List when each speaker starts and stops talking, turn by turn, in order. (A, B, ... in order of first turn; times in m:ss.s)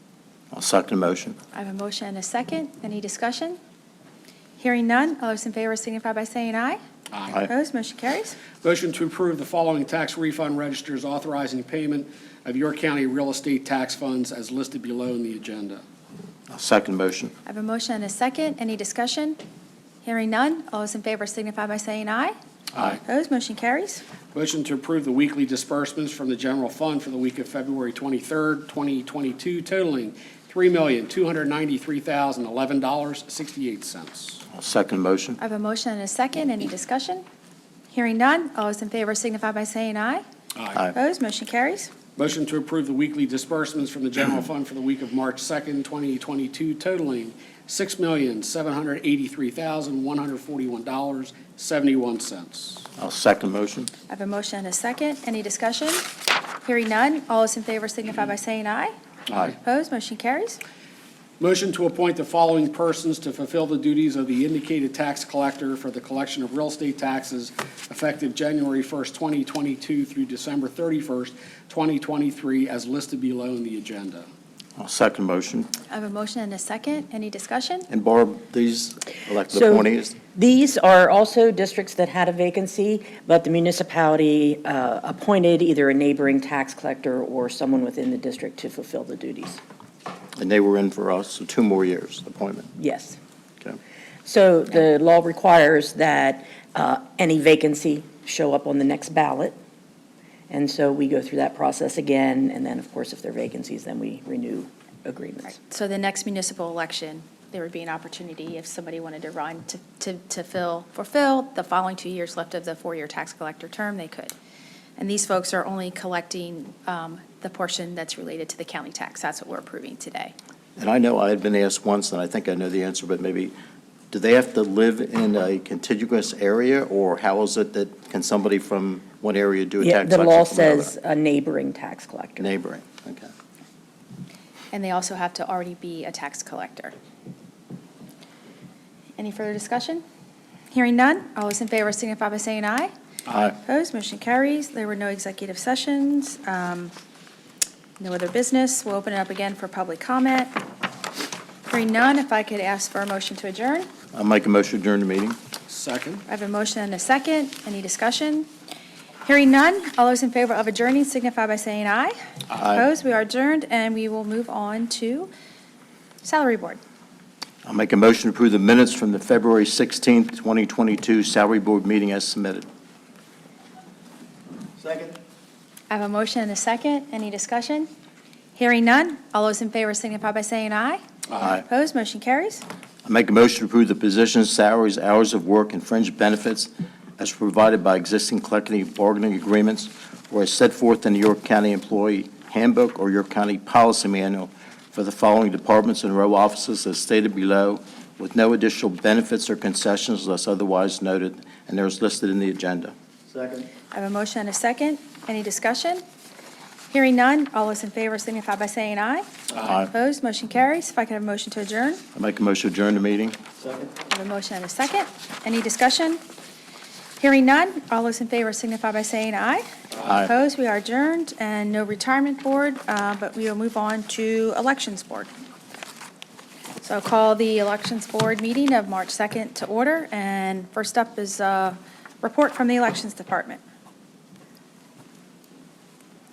0:00.5-0:01.4 A
0:01.5-0:03.6 B
0:04.6-0:06.8 B
0:07.1-0:07.4 C
0:07.5-0:08.4 B
0:08.6-0:15.8 C
0:16.5-0:17.3 A
0:17.5-0:19.4 B
0:20.0-0:22.3 B
0:23.1-0:24.0 B
0:24.3-0:34.4 C
0:34.5-0:35.4 A
0:35.4-0:37.2 B
0:37.9-0:40.2 B
0:40.6-0:40.8 C
0:40.9-0:41.9 B
0:42.2-0:52.8 C
0:53.0-0:53.9 A
0:54.1-0:56.1 B
0:56.6-1:00.6 B
1:01.4-1:14.3 C
1:14.8-1:15.7 A
1:15.9-1:17.9 B
1:17.9-1:20.2 A
1:19.5-1:29.6 D
1:30.4-1:32.7 A
1:32.8-1:33.2 D
1:34.3-1:39.6 D
1:40.5-1:45.6 D
1:45.7-1:54.3 B
1:55.0-2:00.3 B
2:00.8-2:03.6 A
2:04.1-2:10.9 A
2:09.8-2:12.4 D
2:12.4-2:13.3 A
2:14.7-2:16.9 B
2:19.2-2:20.0 B
2:20.7-2:22.9 B
2:23.6-2:26.9 B
2:28.0-2:30.5 B
2:31.7-2:33.9 B
2:34.1-2:35.4 A
2:35.7-2:36.2 C
2:36.3-2:38.5 B
2:39.3-2:45.3 B
2:42.6-2:42.8 A
2:46.2-2:46.8 B
2:47.6-2:52.7 A
2:55.9-2:57.9 B
2:58.6-3:02.6 B
3:03.0-3:22.9 A
3:23.9-3:26.0 B
3:26.9-3:32.0 B
3:29.6-3:29.9 A
3:32.2-3:33.4 A
3:34.1-3:36.2 B
3:37.2-3:45.3 B
3:40.0-3:40.3 A
3:46.8-3:53.6 B